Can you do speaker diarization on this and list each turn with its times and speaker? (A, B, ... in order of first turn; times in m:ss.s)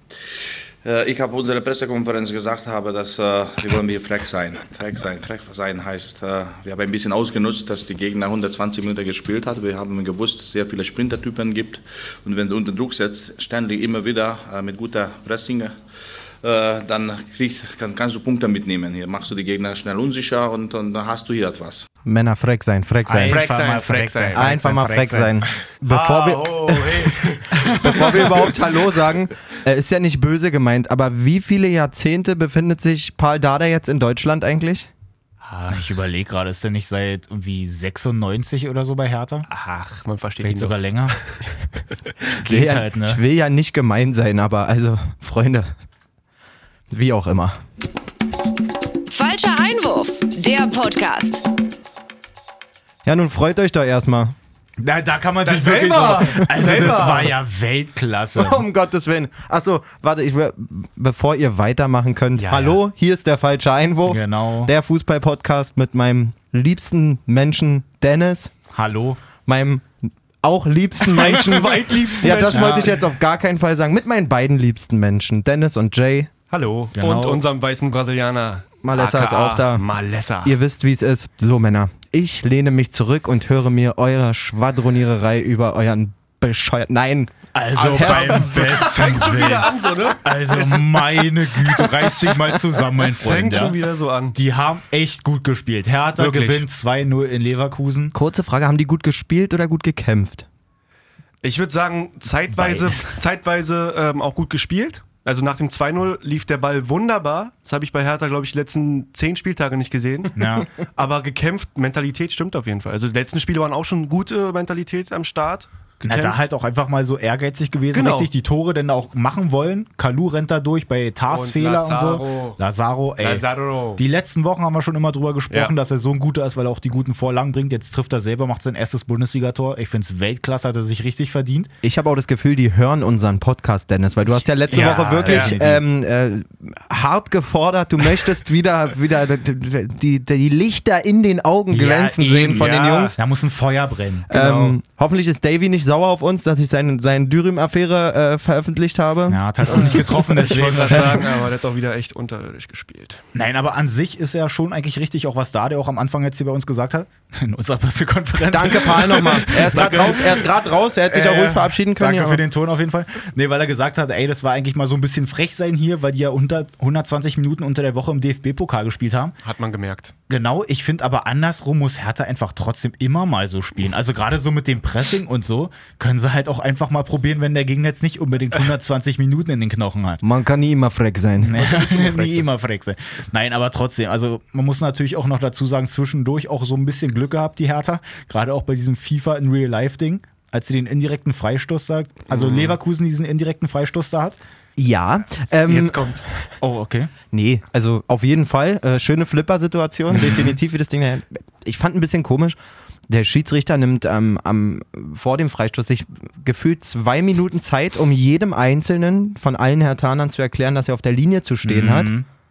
0:00.8-0:15.8 A
0:16.4-0:21.9 A
0:22.0-0:23.5 B
0:23.1-0:25.3 C
0:23.2-0:28.7 D
0:24.4-0:27.1 B
0:27.7-0:34.9 B
0:27.8-0:28.1 C
0:35.4-0:35.8 D
0:35.7-0:39.5 C
0:39.5-0:41.4 D
0:40.4-0:41.2 C
0:42.4-0:43.2 C
0:42.4-0:45.7 B
0:46.9-0:47.6 B
0:49.1-0:51.5 E
0:53.0-0:54.4 B
0:54.8-0:58.7 C
0:55.4-0:57.4 D
0:58.4-1:08.5 B
1:02.4-1:02.8 D
1:04.1-1:04.7 C
1:08.7-1:09.2 C
1:09.4-1:16.3 B
1:11.0-1:13.0 D
1:12.3-1:13.0 C
1:16.5-1:20.6 D
1:17.0-1:17.4 C
1:18.8-1:19.9 B
1:20.4-1:28.8 B
1:27.5-1:33.8 C
1:27.8-1:30.8 D
1:31.8-1:32.3 D
1:33.0-1:34.4 D
1:34.3-1:38.2 C
1:36.2-1:36.7 D
1:38.1-1:40.5 B
1:41.4-1:56.4 D
1:42.5-1:43.2 C
1:50.4-1:50.7 C
1:56.0-2:11.7 C
1:57.9-1:58.3 D
2:01.3-2:02.6 D
2:03.2-2:04.0 D
2:11.8-2:23.2 B
2:14.6-2:15.6 D
2:14.7-2:15.8 C
2:21.7-2:24.3 C
2:24.3-2:24.8 D
2:24.3-2:31.0 B
2:29.3-2:31.3 C
2:29.7-2:33.2 D
2:33.3-2:40.5 C
2:38.5-2:42.4 B
2:41.0-2:49.3 C
2:49.4-2:50.1 D
2:50.3-3:00.2 C
3:00.2-3:01.6 B
3:01.4-3:14.4 C
3:01.6-3:02.5 D
3:12.3-3:12.8 D
3:14.8-3:16.0 B
3:15.7-3:16.3 D
3:16.6-3:17.1 C
3:17.3-3:22.6 B
3:20.1-3:20.6 C
3:23.1-3:32.1 B
3:31.6-3:32.3 C